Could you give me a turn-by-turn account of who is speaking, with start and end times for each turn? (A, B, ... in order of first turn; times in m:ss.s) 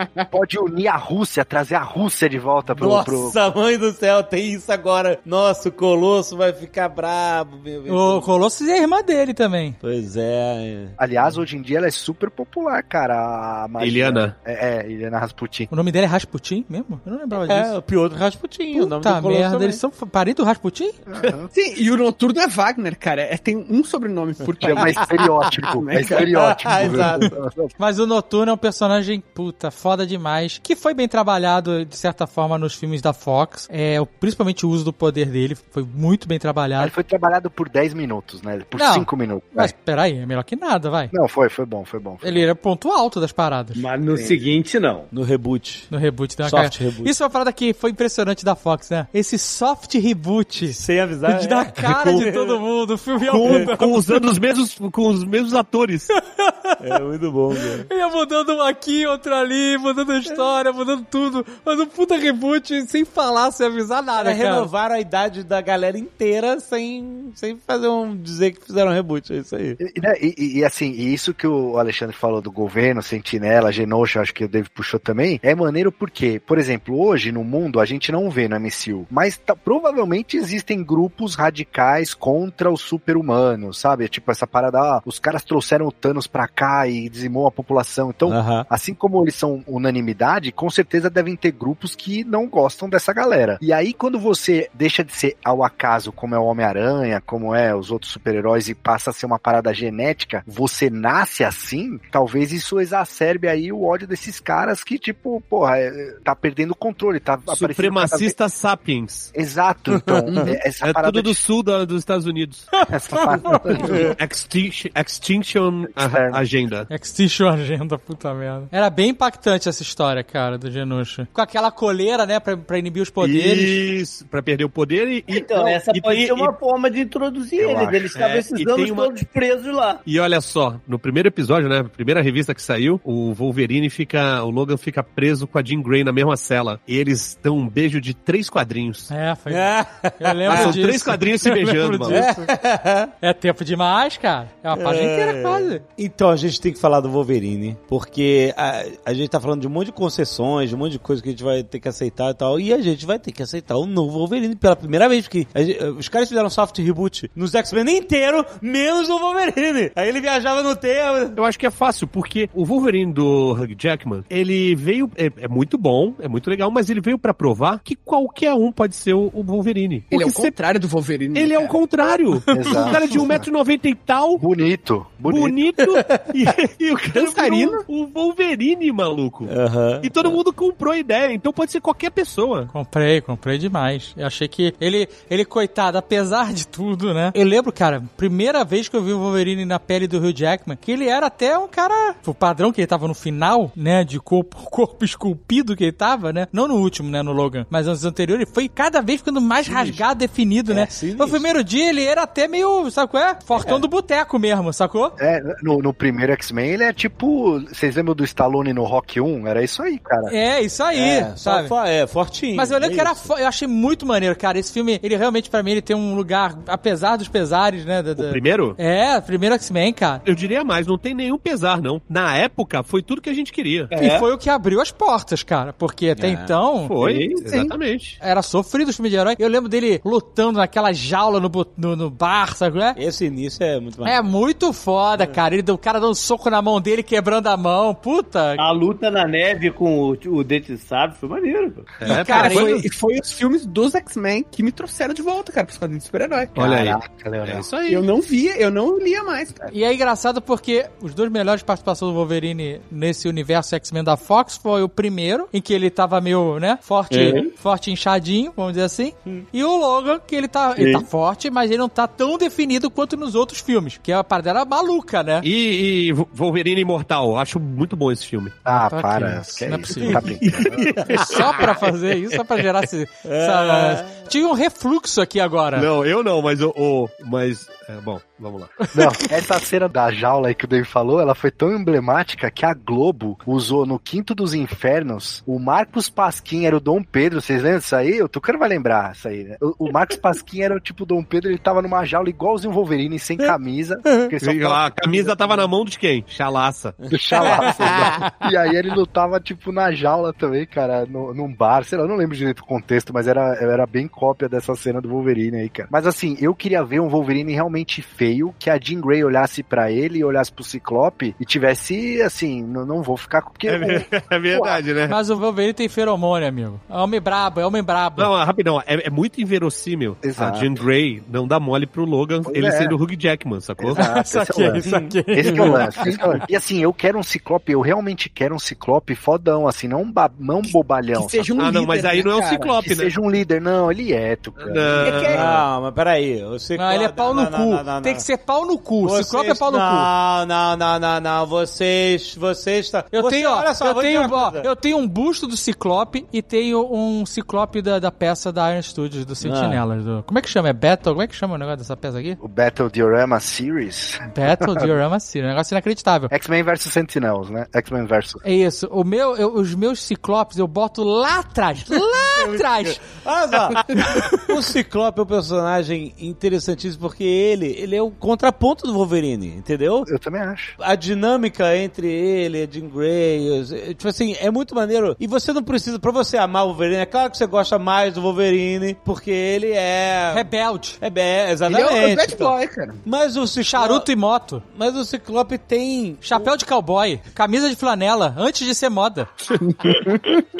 0:00.3-0:03.4 A
0:02.8-0:08.3 B
0:07.9-0:09.8 C
0:09.8-0:11.4 B
0:11.0-0:15.7 A
0:13.8-0:14.4 D
0:15.7-0:17.7 C
0:17.3-0:19.8 B
0:18.7-0:20.9 C
0:21.1-0:21.5 A
0:21.5-0:26.8 E
0:24.6-0:27.7 A
0:24.7-0:25.3 B
0:26.2-0:27.4 B
0:27.8-0:36.9 C
0:36.8-0:39.7 A
0:38.8-0:41.1 C
0:41.1-0:42.4 A
0:42.2-0:43.8 C
0:43.7-0:45.1 F
0:45.1-0:45.9 B
0:45.9-0:54.2 C
0:46.4-0:47.1 B
0:50.7-0:52.6 B
0:53.2-0:56.1 D
0:53.4-0:53.7 B
0:56.1-0:57.0 C
0:56.8-0:57.9 B
0:57.6-1:04.7 C
1:04.1-1:09.8 B
1:09.8-1:48.4 A
1:28.3-1:28.7 B
1:47.5-1:49.3 D
1:49.3-1:51.4 A
1:50.8-1:52.7 D
1:52.8-1:54.1 A
1:53.2-1:54.0 C
1:53.9-1:56.9 D
1:55.9-1:56.4 A
1:56.9-2:03.8 C
2:03.2-2:06.5 D
2:05.3-2:10.0 F
2:07.6-2:09.2 D
2:10.1-2:19.1 D
2:19.1-2:22.5 C
2:19.5-2:20.8 B
2:20.5-2:22.2 D
2:22.1-2:23.1 B
2:23.2-2:25.8 C
2:24.7-2:41.4 B
2:41.4-2:50.6 D
2:50.1-2:52.1 E
2:51.3-2:54.4 D
2:52.5-2:53.5 A
2:54.4-2:55.6 A
2:55.3-3:02.7 D
2:55.9-2:56.2 B
2:57.1-2:57.8 E
2:59.4-3:00.4 B
3:02.7-3:25.2 C
3:19.6-3:19.9 D
3:20.7-3:21.4 B
3:23.6-3:23.8 B
3:25.2-3:30.3 A
3:30.3-3:31.7 C
3:30.9-3:33.3 B
3:32.6-3:40.2 C
3:38.2-3:38.8 D
3:40.2-3:43.9 D
3:43.9-3:44.3 F
3:44.0-3:46.9 C
3:46.2-3:46.5 B
3:46.9-3:48.2 D
3:47.0-3:47.4 F
3:48.2-3:53.0 C
3:53.0-3:54.2 B
3:54.0-3:58.6 C
3:58.6-4:02.0 F
4:02.0-4:02.8 D
4:02.1-4:02.7 C
4:02.1-4:06.5 E
4:06.6-4:07.6 A
4:06.6-4:08.1 D
4:07.9-4:09.7 E
4:09.7-4:25.4 C
4:25.4-4:28.6 D
4:28.6-4:31.4 A
4:28.7-4:30.5 C
4:30.0-4:31.6 B
4:31.1-4:35.9 C
4:33.2-4:34.3 B
4:35.7-4:38.8 D
4:38.9-4:55.7 A
4:54.4-4:56.9 D
4:57.0-4:58.3 B
4:57.1-5:14.8 A
5:13.6-5:15.2 D
5:15.1-5:18.3 C
5:18.2-5:24.0 D
5:20.2-5:20.7 A
5:22.4-5:23.0 A
5:23.8-5:31.5 A
5:24.0-5:26.4 C
5:24.8-5:25.9 B
5:31.1-5:32.8 E
5:31.6-5:33.1 D
5:32.8-5:35.6 A
5:34.6-5:35.4 D
5:35.0-5:35.5 E
5:35.3-5:38.3 B
5:36.8-5:40.1 C
5:39.0-5:44.7 B
5:43.1-5:52.4 C
5:49.4-5:49.8 B
5:52.4-5:54.9 A
5:54.3-5:56.3 C
5:56.3-5:58.4 A
5:58.4-6:03.0 C
6:02.2-6:10.1 B
6:04.0-6:04.4 C
6:10.1-6:10.7 A
6:10.8-6:24.1 B
6:20.3-6:21.0 C
6:21.7-6:23.0 E
6:23.6-6:24.6 C
6:24.6-6:26.5 B
6:26.2-6:29.3 C
6:29.6-6:30.3 E